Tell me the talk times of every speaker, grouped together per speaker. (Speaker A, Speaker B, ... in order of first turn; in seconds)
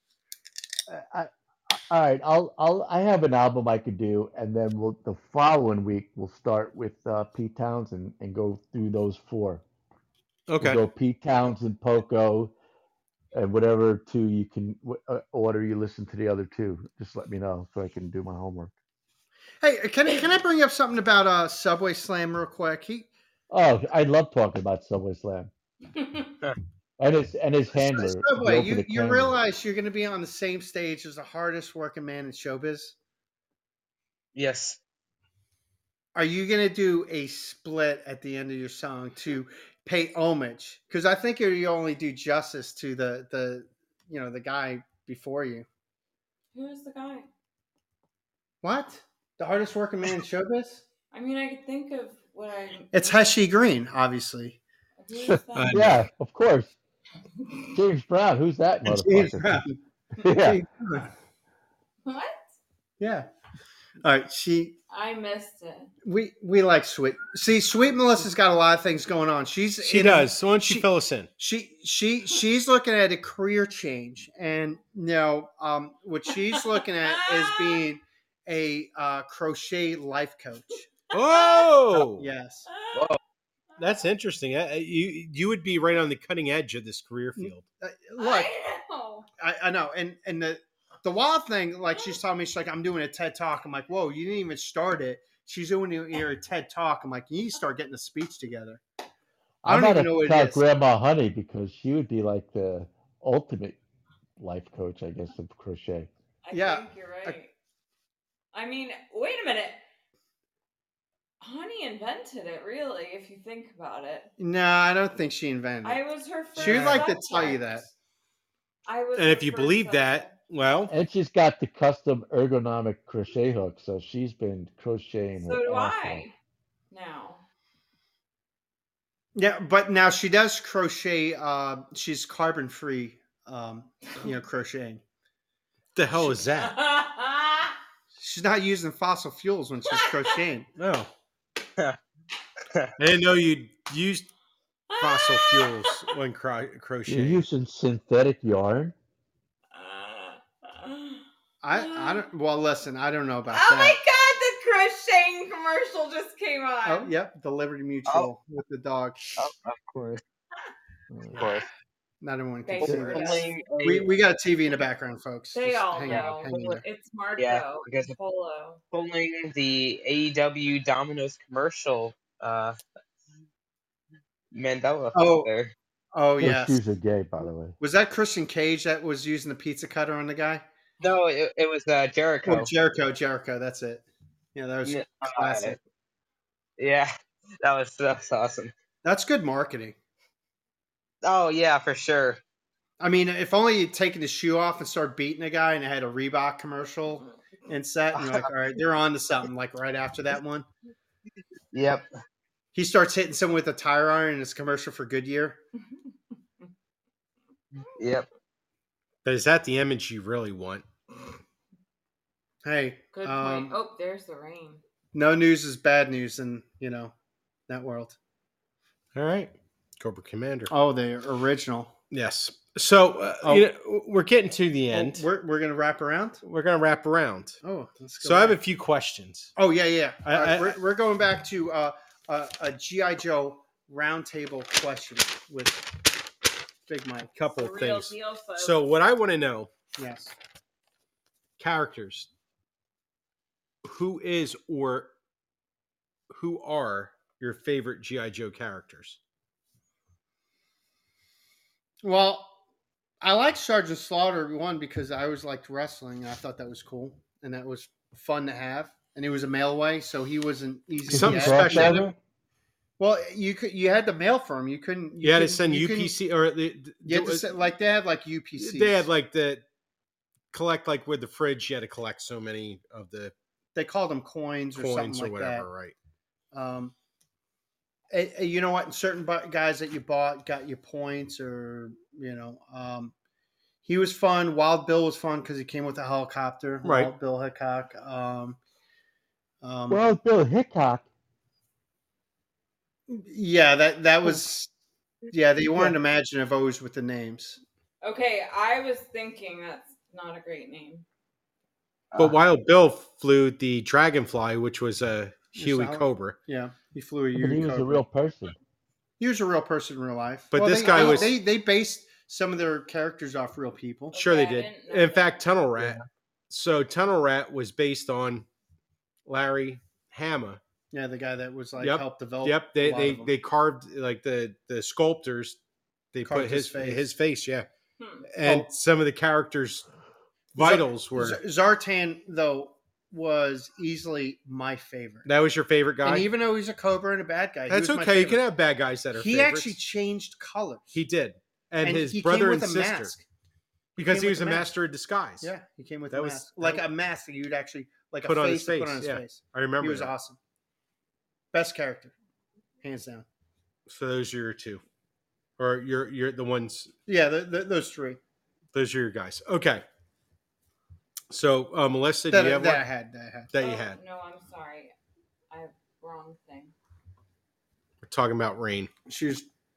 Speaker A: 0.9-9.6, 10.6-12.5, 13.3-18.7, 23.5-25.5, 27.0-29.4, 55.2-56.7, 57.7-59.7, 60.2-60.6, 99.6-103.8, 104.4-106.1, 120.9-126.2, 147.1-148.9, 161.1-161.4, 176.4-177.8, 261.1-262.1, 289.9-291.1, 295.6-295.9, 307.3-308.6
Speaker B: 10.5-10.8, 55.5-56.0, 69.8-71.3, 81.1-82.3, 83.8-87.6, 116.6-117.1, 119.2-120.9, 135.9-136.8, 140.8-141.1, 143.0-144.3, 145.0-147.5, 209.2-210.8, 219.1-220.7, 222.1-225.3, 226.4-227.6, 228.2-229.5, 230.2-230.8, 237.4-239.7, 241.6-242.3, 243.8-245.1, 246.3-249.2, 261.1-262.1, 265.2-267.5, 268.6-269.6, 270.5-273.3, 274.8-275.9, 286.8-287.1, 302.2-306.4, 310.5-311.4, 314.1-318.5, 319.3-320.6, 321.8-325.6, 326.1-327.7, 328.3-329.9, 330.5-331.4, 335.2-336.3, 337.7-339.8, 340.9-343.1, 344.0-345.5, 346.1-346.8, 348.2-350.1, 353.9-354.8, 355.6-356.9, 358.7-359.9, 361.3-362.8, 363.5-364.0, 368.0-368.9
Speaker C: 19.6-23.1, 27.7-33.0, 36.1-45.7, 48.6-50.8, 52.9-54.6, 58.9-59.8, 60.3-61.1, 63.0-63.3, 64.0-64.8, 66.0-70.9, 71.4-80.9, 82.0-82.8, 87.4-88.5, 89.4-98.8, 99.7-100.6, 106.5-107.4, 114.4-116.0, 116.6-117.9, 129.3-135.0, 138.2-140.7, 151.6-154.0, 156.8-159.3, 162.2-166.8, 175.2-175.5, 176.1-176.8, 177.8-180.6, 182.4-185.8, 189.0-190.0, 193.0-200.7, 202.7-205.6, 212.6-213.8, 215.1-217.2, 217.7-218.2, 220.7-221.9, 224.9-226.4, 227.6-228.6, 229.6-235.9, 236.9-237.3, 240.0-240.3, 252.0-252.6, 253.2-262.1, 263.0-266.1, 267.1-269.1, 273.8-275.7, 276.5-276.9, 278.1-283.1, 283.9-288.6, 289.6-290.0, 293.1-294.7, 295.3-297.6, 305.6-308.0, 309.2-314.1, 320.9-323.3, 326.2-327.1, 330.6-335.3, 336.0-338.4, 339.1-341.0, 341.8-343.2, 344.0-344.7, 345.4-350.4, 351.5-352.1, 352.8-353.2, 357.1-358.2, 362.3-363.5, 369.1-369.5
Speaker D: 26.0-26.3, 46.5-47.3, 51.1-53.2, 55.0-55.8, 62.1-62.4, 64.9-65.9, 77.1-77.8, 81.1-81.7, 82.7-83.1, 88.2-89.3, 106.4-107.5, 108.5-109.8, 111.4-114.3, 115.8-117.9, 118.9-120.3, 125.4-126.3, 126.9-127.4, 136.2-137.8, 139.9-140.4, 144.9-146.1, 149.7-152.2, 153.5-157.1, 162.7-163.5, 165.5-168.8, 213.1-214.8, 237.5-238.8, 298.0-301.1, 314.1-315.4, 328.0-328.3, 363.6-364.9, 365.5-366.7
Speaker E: 34.4-34.8, 82.9-83.2, 142.6-142.9, 159.4-160.2, 161.3-161.7, 162.8-164.1, 166.1-166.8, 167.4-168.2, 168.9-172.8, 174.5-175.7, 181.0-182.7, 184.8-185.8, 186.8-188.7, 191.2-192.4, 198.1-198.5, 201.7-202.1, 207.8-208.3, 310.9-311.3